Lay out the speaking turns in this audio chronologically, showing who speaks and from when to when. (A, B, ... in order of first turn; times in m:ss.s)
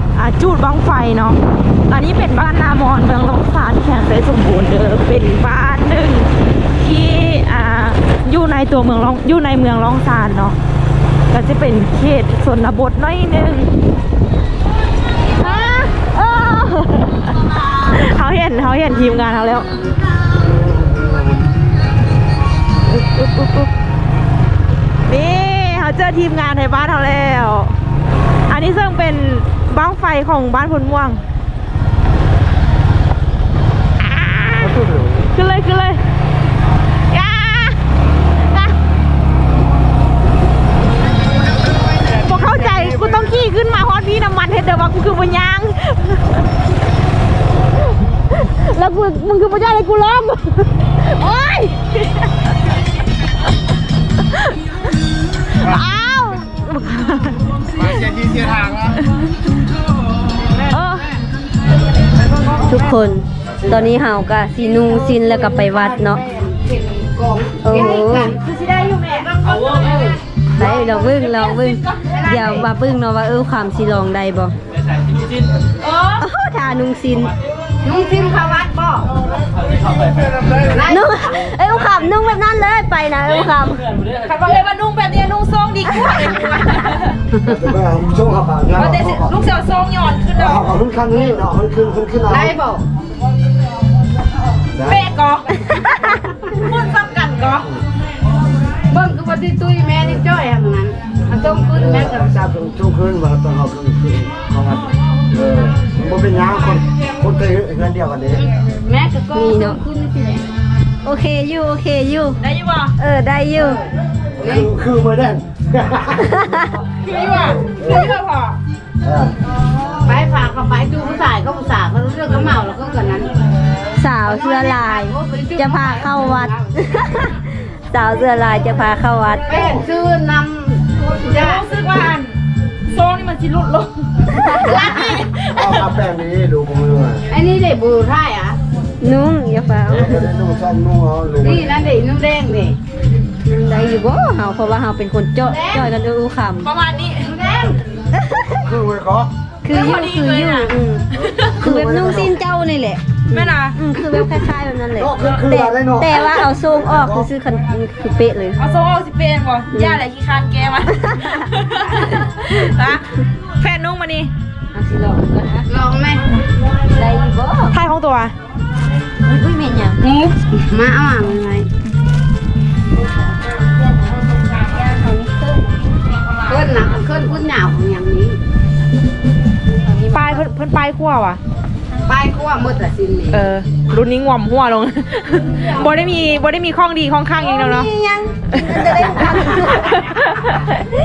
0:00.2-0:10.6 A
0:11.3-0:13.8 A
0:15.4-0:19.7 A
0:20.5-0:21.4 B
0:22.9-0:23.7 A
0:25.1-0:27.8 A
0:28.5-0:31.2 A
0:34.0-0:36.0 A
0:37.1-0:37.8 A
0:42.1-0:46.4 A
0:48.4-0:51.9 A
0:54.3-0:54.6 A
0:55.4-0:59.2 A
1:00.6-1:01.2 A
1:02.7-1:06.2 C
1:05.0-1:08.4 D
1:07.6-1:08.4 C
1:08.3-1:09.4 A
1:09.2-1:11.1 D
1:10.6-1:14.6 C
1:11.6-1:12.1 A
1:12.2-1:12.7 D
1:15.8-1:16.3 A
1:16.2-1:17.3 C
1:17.8-1:19.1 D
1:20.7-1:21.0 D
1:20.8-1:24.0 C
1:24.2-1:27.3 A
1:27.3-1:27.7 D
1:27.5-1:29.1 B
1:28.7-1:30.9 A
1:30.6-1:32.5 B
1:32.2-1:32.8 D
1:34.8-1:37.8 A
1:38.9-1:42.3 D
1:42.0-1:44.9 B
1:45.4-1:48.4 B
1:48.4-1:50.5 D
1:49.3-1:49.8 C
1:51.0-1:52.4 C
1:52.4-1:52.9 A
1:53.0-1:53.8 C
1:54.4-1:54.7 D
1:54.4-1:56.2 B
1:56.1-1:56.7 C
1:57.0-1:58.6 A
1:59.0-1:59.3 B
2:00.0-2:03.3 D
2:04.0-2:09.7 C
2:04.2-2:06.8 D
2:09.5-2:11.6 D
2:11.2-2:16.0 A
2:14.4-2:15.0 C
2:15.6-2:17.2 B
2:17.3-2:18.6 D
2:19.0-2:20.3 C
2:19.9-2:21.6 B
2:21.4-2:22.8 D
2:23.4-2:26.7 C
2:25.4-2:25.9 D
2:26.6-2:27.4 A
2:27.2-2:27.8 D
2:28.1-2:28.7 C
2:28.6-2:29.3 B
2:29.6-2:31.1 C
2:29.7-2:31.7 A
2:31.6-2:38.6 C
2:31.6-2:32.4 B
2:33.3-2:34.3 A
2:35.0-2:37.3 B
2:38.6-2:44.3 A
2:39.7-2:40.0 C
2:44.7-2:45.7 C
2:45.7-2:46.2 D
2:46.9-2:47.8 C
2:47.7-2:48.3 A
2:49.2-2:50.0 C
2:50.0-2:51.7 D
2:54.5-2:55.9 C
2:56.5-2:58.4 D
2:59.7-3:00.4 C
3:00.1-3:01.4 A
3:02.1-3:03.5 D
3:03.3-3:07.9 A
3:07.4-3:10.2 C
3:08.5-3:10.8 A